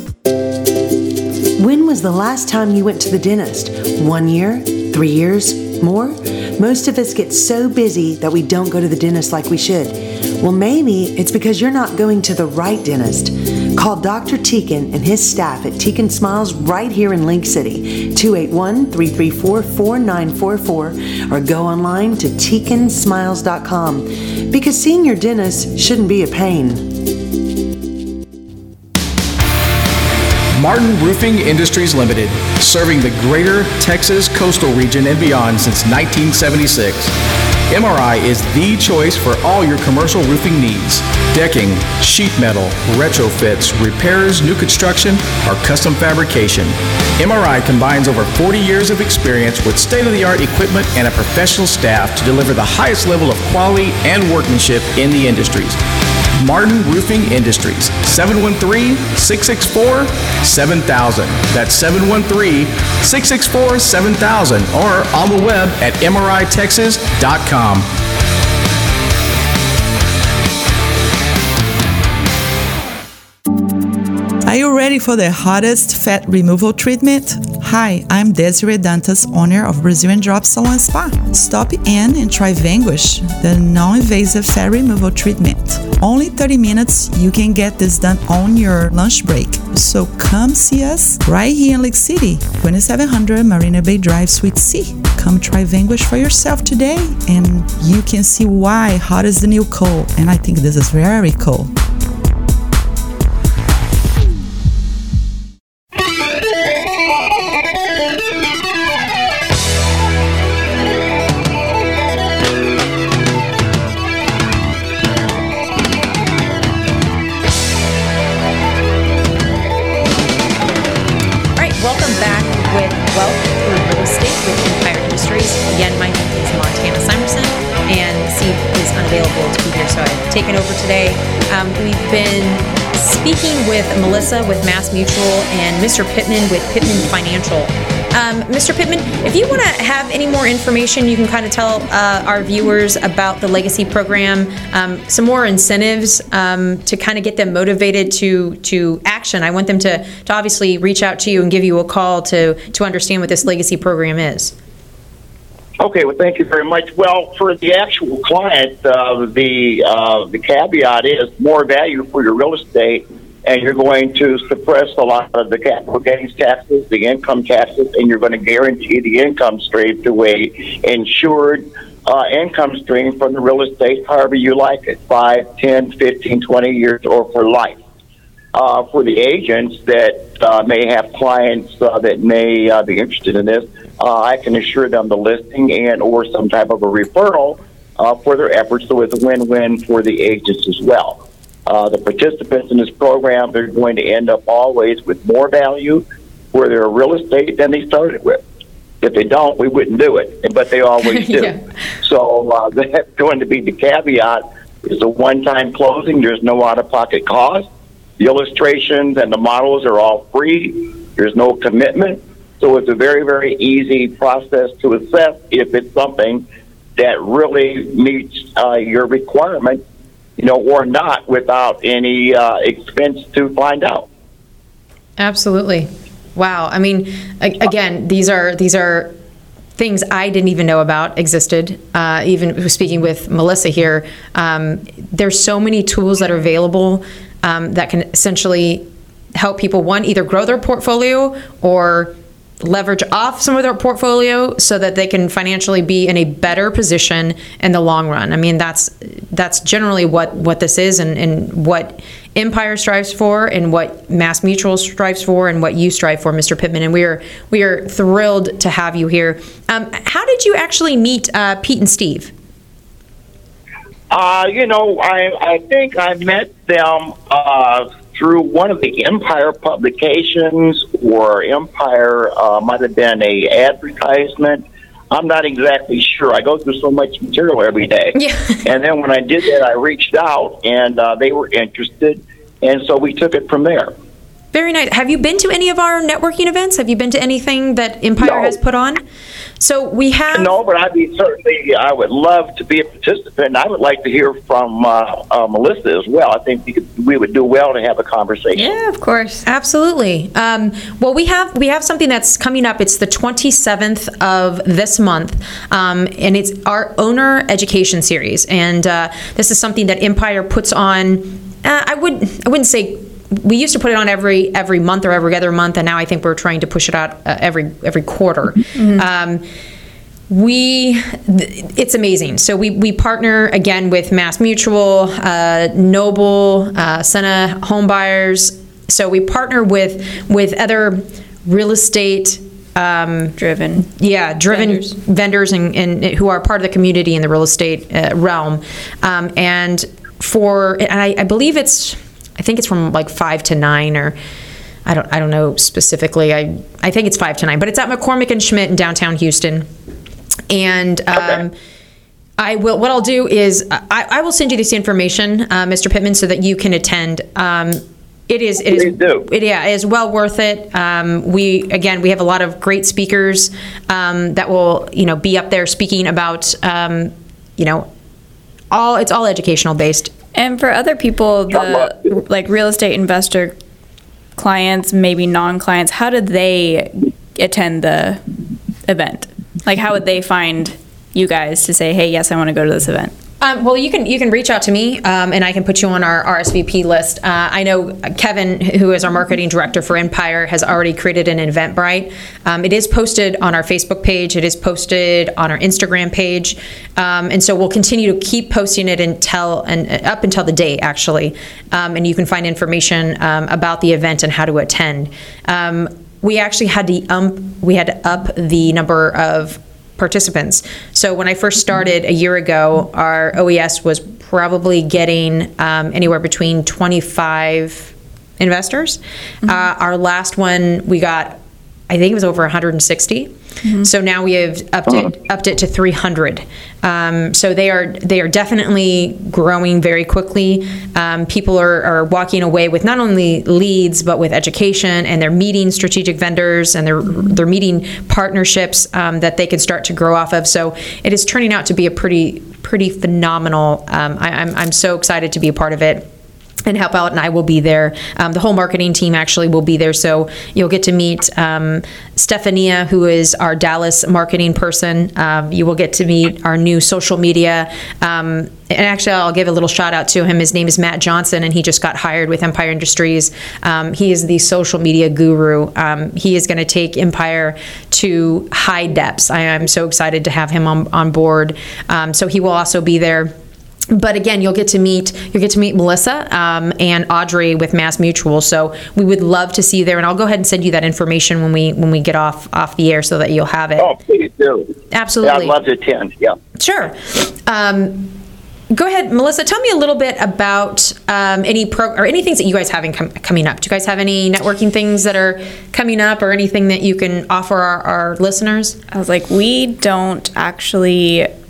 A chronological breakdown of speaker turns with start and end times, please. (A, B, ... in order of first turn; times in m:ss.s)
0:01.6-0:27.0 A
0:30.6-0:37.1 B
0:37.7-0:55.8 B
0:56.4-1:07.9 B
1:14.4-1:41.7 C
2:01.6-2:34.5 D
2:35.8-2:57.8 E
2:58.5-3:18.4 E
3:19.0-3:27.7 E
3:21.0-3:21.6 D
3:28.2-3:36.4 E
3:37.0-3:39.8 E
3:40.4-3:44.1 E
3:45.2-3:49.2 D
3:49.8-4:22.3 D
4:24.1-4:43.9 E
4:38.2-4:38.6 D
4:44.5-4:49.0 D
4:48.2-4:48.5 E
4:49.6-4:50.6 D
4:50.3-4:58.7 E
4:58.6-4:59.4 F
4:59.4-5:19.4 D
5:18.8-5:19.0 F
5:20.3-5:44.2 D
5:33.4-5:33.9 F
5:34.5-5:34.9 F
5:44.9-5:49.7 D
5:50.5-5:51.5 D
5:51.2-5:51.4 E
5:52.4-6:07.9 D
5:58.7-5:59.3 E
6:08.7-6:10.1 D
6:10.4-6:13.6 F
6:14.4-6:18.2 F
6:18.9-6:23.1 F
6:23.4-7:01.4 D
7:01.9-7:26.1 D
7:26.6-7:53.3 D
7:53.9-8:03.9 D
8:03.8-8:06.4 E
8:04.9-8:05.6 D
8:06.6-8:08.2 D
8:08.7-8:18.8 D
8:18.9-8:21.3 F